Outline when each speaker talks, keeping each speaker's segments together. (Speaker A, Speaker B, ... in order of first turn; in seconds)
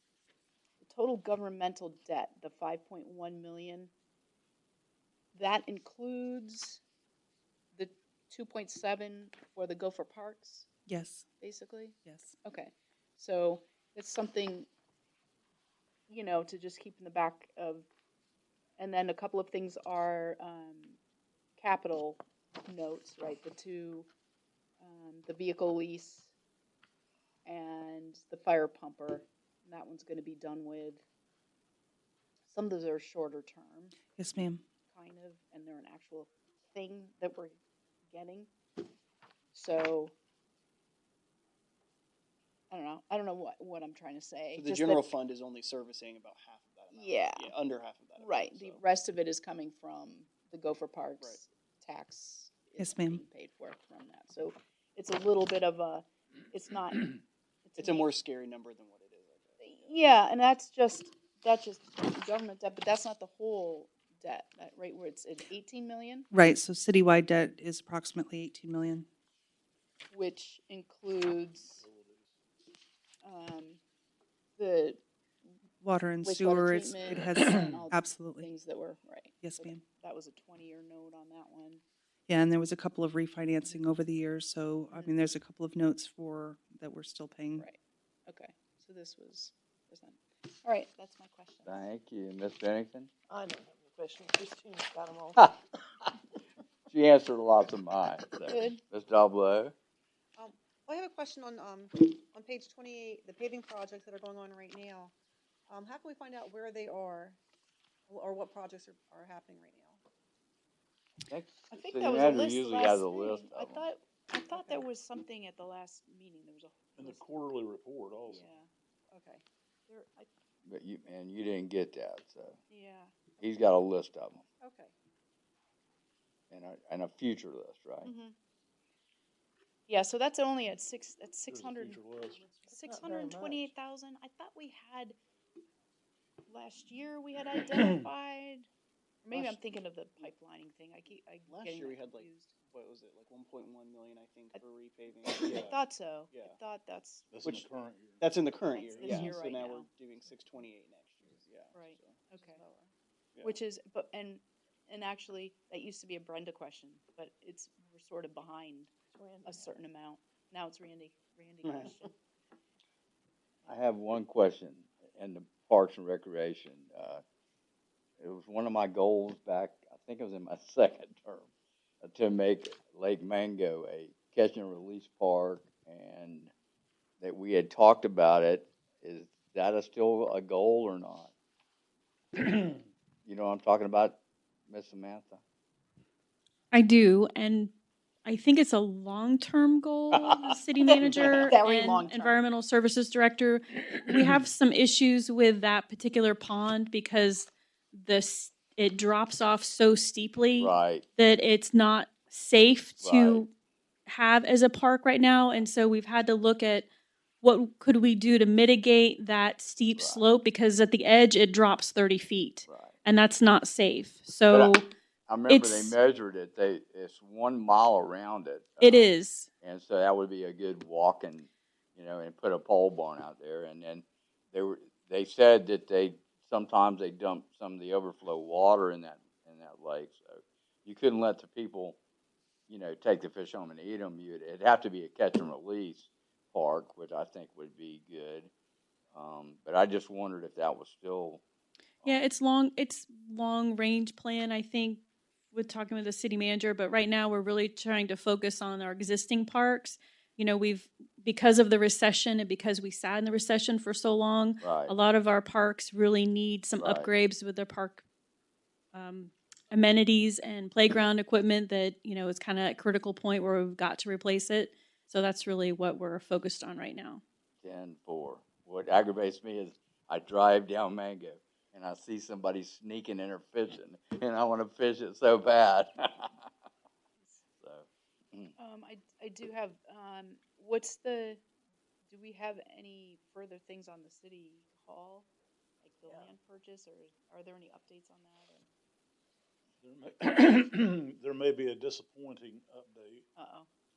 Speaker A: 0.8-3.9, 5.3-6.8, 7.7-10.7, 11.4-14.7, 16.1-17.9, 18.8-21.0, 21.6-24.1, 24.8-26.3, 27.4-31.0, 32.5-33.9, 34.9-37.6, 38.1-38.5, 39.5-40.1, 42.7-45.1, 46.9-47.5, 48.2-58.1, 59.6-66.3, 70.1-71.8, 73.2-73.8, 74.6-75.0, 76.2-81.8, 84.9-85.2, 87.5-91.9, 98.5-98.8, 111.7-117.2, 118.3-120.3, 122.7-123.1, 124.6-124.9, 128.0-128.3, 129.9-132.0, 132.7-135.2, 136.5-138.7, 139.2-142.5, 145.3-147.2, 148.7-149.9, 151.7-152.6, 153.4-158.9, 159.4-162.1, 191.1-192.4, 278.6-281.4, 282.1-285.3, 285.8-288.7, 293.4-293.7
Speaker B: 10.9-11.2, 12.0-12.3, 34.1-34.6, 52.8-53.2, 66.3-69.0, 75.8-78.5, 79.4-79.8, 82.3-87.7
Speaker C: 44.5-48.8, 57.8-60.1, 139.3-139.6, 141.5-146.6, 147.4-147.7, 148.2-152.3, 161.6-162.0
Speaker D: 71.6-72.3, 117.0-118.5, 131.5-132.6, 147.3-148.2, 289.8-293.2
Speaker E: 91.7-93.1, 96.9-99.7, 111.3-113.8, 120.7-122.6, 123.4-124.4, 126.5-128.1, 163.7-167.2, 168.2-171.5, 172.0-176.5, 177.2-181.3, 183.2-185.4, 191.0-191.3, 200.6-201.1, 203.0-203.4, 209.9-210.2, 212.7-212.9, 215.3-219.1, 219.6-232.0, 232.7-238.5, 239.1-241.4, 254.6-254.9, 256.8-257.1, 267.6-276.3, 277.6-278.5
Speaker F: 93.3-95.4, 132.8-133.7, 159.1-159.7
Speaker G: 100.4-105.1, 105.7-107.4, 108.1-110.0, 114.5-114.8
Speaker H: 186.7-187.7, 188.2-203.5, 204.1-206.9, 207.4-214.9, 215.5-215.9, 218.8-219.5, 242.0-245.0, 245.5-258.0, 258.9-267.2